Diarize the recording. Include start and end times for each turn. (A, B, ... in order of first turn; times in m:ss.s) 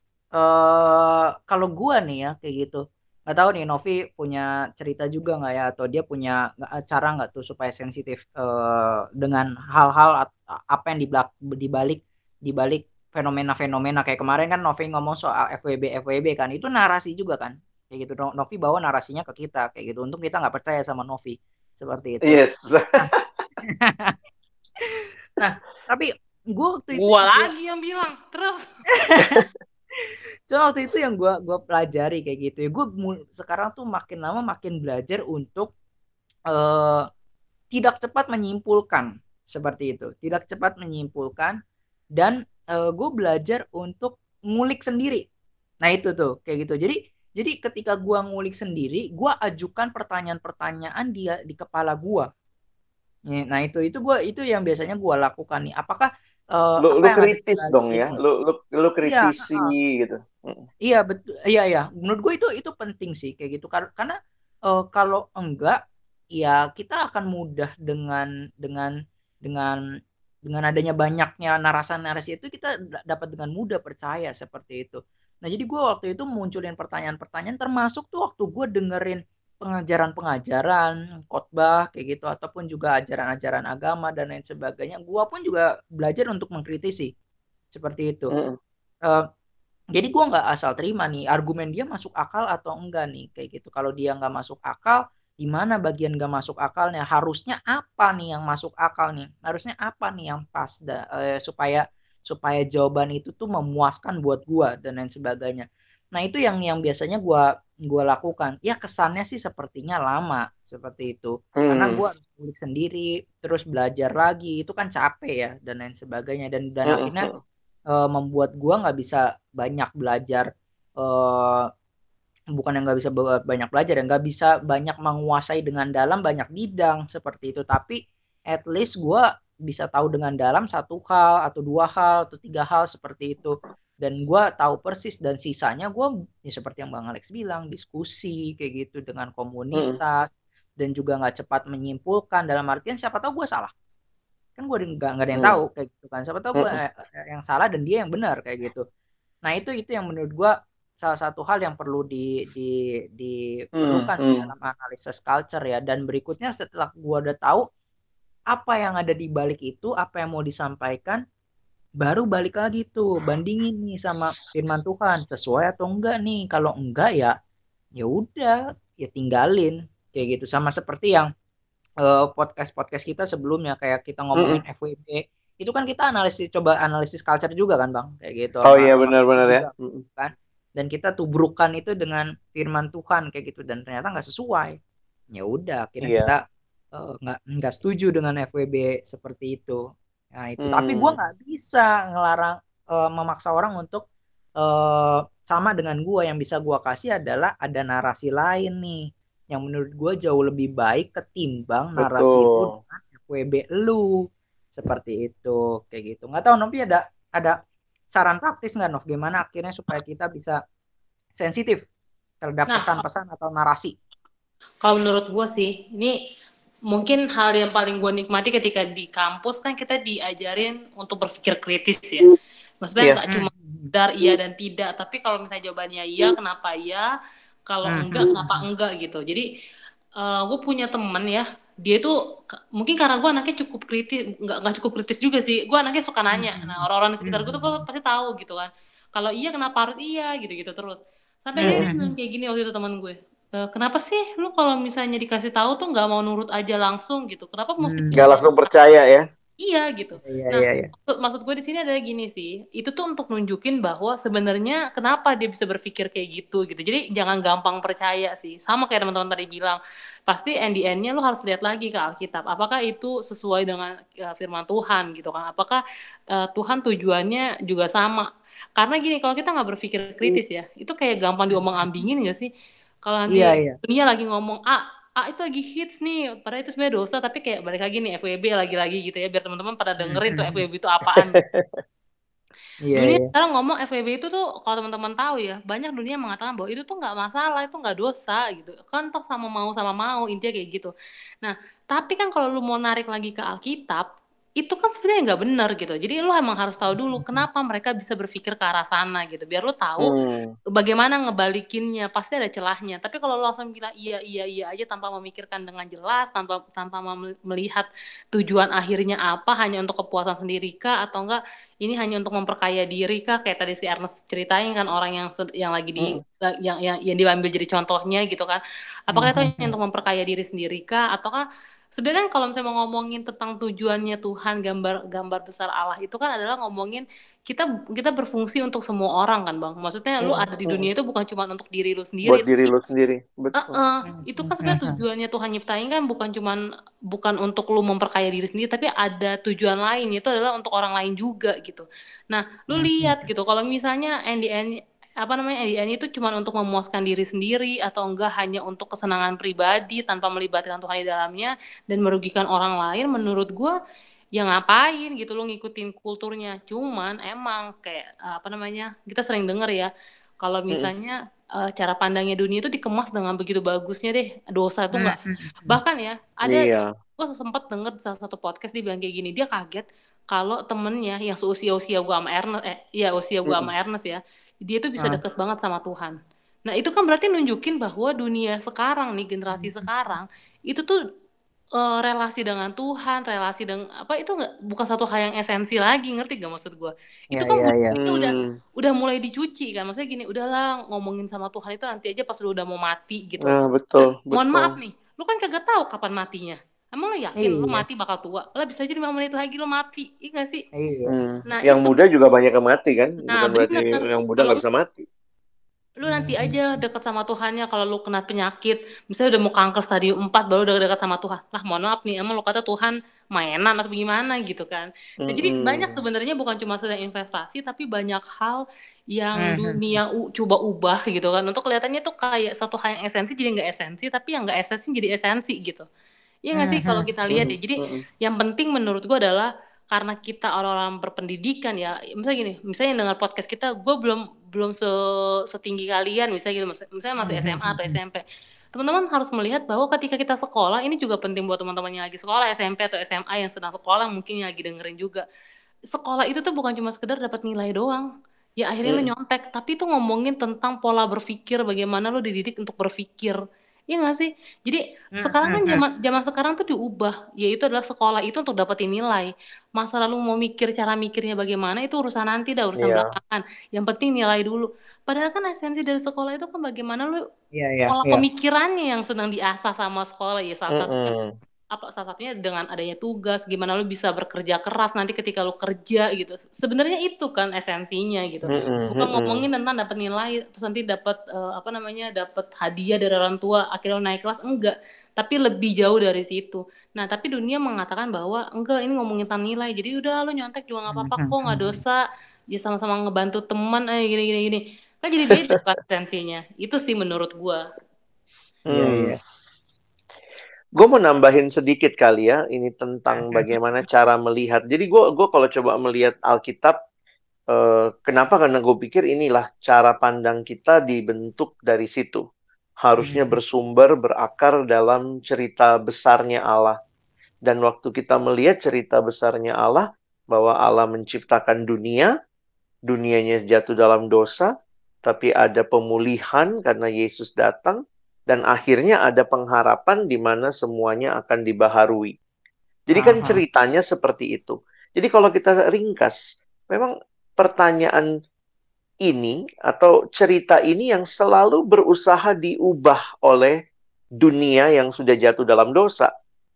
0:00.4-0:22.4 A
0:22.2-0:23.2 B
0:23.6-0:24.2 A
0:24.8-0:27.5 A
0:27.0-0:28.7 C
0:29.0-0:29.4 A
0:30.5-0:35.7 A
0:36.5-0:37.1 A
0:37.7-0:41.6 A
0:42.2-0:45.2 A
0:45.8-0:52.3 A
0:53.3-0:58.2 A
0:56.8-1:00.6 B
0:59.1-0:59.7 A
1:00.8-1:04.2 A
1:04.7-1:05.8 A
1:06.4-1:08.9 A
1:09.5-1:09.8 A
1:10.5-1:27.1 A
1:27.7-1:28.3 A
1:30.0-1:57.3 A
1:51.6-1:52.0 B
1:56.9-1:57.4 B
1:58.0-2:00.5 A
2:01.0-2:01.7 A
2:02.6-2:08.0 A
2:08.5-2:20.3 A
2:20.8-2:23.7 A
2:24.6-2:28.8 A
2:29.5-2:37.7 A
2:33.8-2:34.4 B
2:38.5-2:41.2 A
2:42.0-2:47.3 A
2:48.0-2:51.3 A
2:52.0-3:04.8 A
2:58.6-3:00.0 B
3:05.3-3:06.4 A
3:06.0-3:06.3 B
3:07.0-3:09.8 A
3:10.4-3:14.0 A
3:10.6-3:11.2 B
3:14.6-3:24.2 A
3:22.0-3:22.7 B
3:24.7-3:27.6 A
3:28.2-3:30.6 A
3:31.4-3:31.9 A
3:32.4-3:33.9 A
3:32.7-3:33.0 C
3:34.8-3:36.2 C
3:36.9-3:42.2 C
3:42.8-3:47.1 C
3:43.3-3:43.9 A
3:47.7-3:49.4 C
3:47.9-3:48.7 A
3:50.2-3:52.1 C
3:52.8-4:08.7 C
3:56.3-3:57.8 A
4:01.6-4:02.1 A
4:07.8-4:08.3 A
4:08.2-4:09.2 B
4:09.6-4:25.8 C
4:10.2-4:10.9 A
4:26.3-4:32.5 C
4:31.8-4:32.1 A
4:33.0-4:41.4 C
4:33.3-4:33.8 A
4:40.1-4:40.6 A
4:41.2-4:41.8 B
4:42.9-4:43.3 A
4:43.0-4:54.0 C
4:54.6-5:00.1 C
4:56.9-4:57.5 A
5:00.0-5:00.5 B
5:00.7-5:21.4 C
5:19.1-5:19.8 A
5:22.0-5:32.7 C
5:32.3-5:33.8 B
5:33.6-5:36.6 C
5:34.1-5:35.0 A
5:37.1-5:53.8 C
5:42.8-5:43.3 A
5:54.4-5:59.9 C
6:00.4-6:16.2 C
6:05.0-6:05.8 A
6:06.5-6:06.9 B
6:16.7-6:20.9 C
6:19.6-6:19.9 A
6:21.8-6:33.6 C
6:27.4-6:28.0 A
6:28.0-6:28.5 B
6:33.4-6:34.8 B
6:34.3-6:40.6 C
6:37.4-6:37.8 A
6:40.8-6:41.1 A
6:41.1-6:45.0 B
6:41.5-6:42.0 C
6:43.3-6:44.6 C
6:46.0-6:58.6 C
6:46.1-6:46.8 A
6:55.2-6:56.0 B
6:59.1-7:05.9 C
6:59.4-7:00.0 A
7:06.5-7:18.2 C
7:06.6-7:07.0 A
7:07.3-7:08.0 B
7:17.2-7:18.0 A
7:18.7-7:25.3 C
7:25.9-7:28.1 C
7:28.6-7:33.4 C
7:33.9-7:47.2 C
7:35.2-7:35.8 A
7:42.8-7:43.1 B
7:47.5-7:48.2 A
7:47.9-7:51.2 C
7:50.7-7:51.3 B
7:51.7-8:12.0 C
7:58.5-7:59.5 B
8:10.9-8:11.8 A
8:12.5-8:17.6 C
8:18.7-8:19.1 B
8:18.7-8:19.2 A
8:20.8-8:26.8 B
8:23.2-8:23.5 A
8:27.5-8:32.2 B
8:32.8-8:36.8 B
8:33.0-8:33.4 A
8:37.4-8:42.1 B
8:42.9-8:44.5 B
8:45.0-8:52.1 B
8:52.9-8:56.2 B
8:53.0-8:53.4 A
8:56.7-8:58.0 B
8:59.1-9:03.6 B
9:04.2-9:06.1 B